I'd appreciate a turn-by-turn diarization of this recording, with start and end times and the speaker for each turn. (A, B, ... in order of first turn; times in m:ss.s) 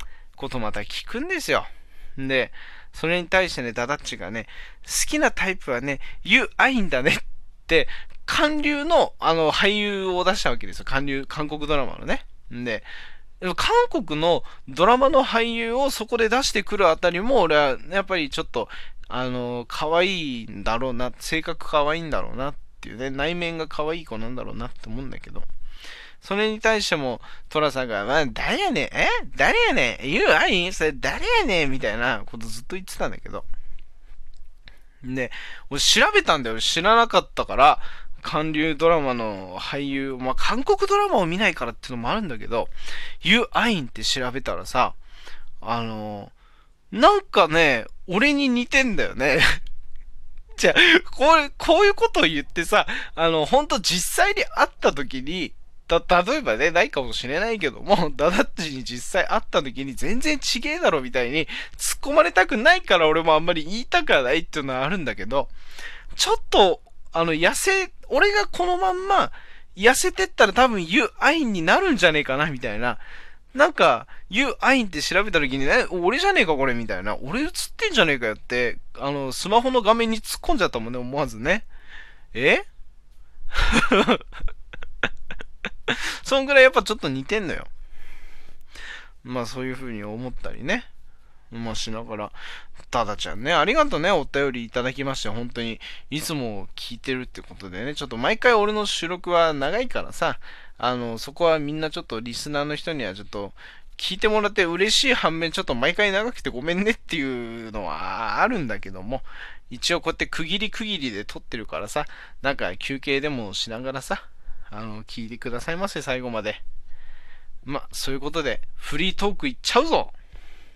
0:00.4-0:12.9 A
0:13.4-0:25.5 A
0:26.2-0:33.4 A
0:35.0-0:45.0 A
0:45.6-0:46.3 A
0:46.9-0:49.6 A
0:50.6-1:05.5 A
1:06.2-1:21.6 A
1:22.3-1:22.6 A
1:23.5-1:24.2 A
1:25.9-1:27.7 A
1:29.2-1:30.9 A
1:31.5-1:32.4 A
1:32.9-1:56.6 A
1:57.6-2:00.1 A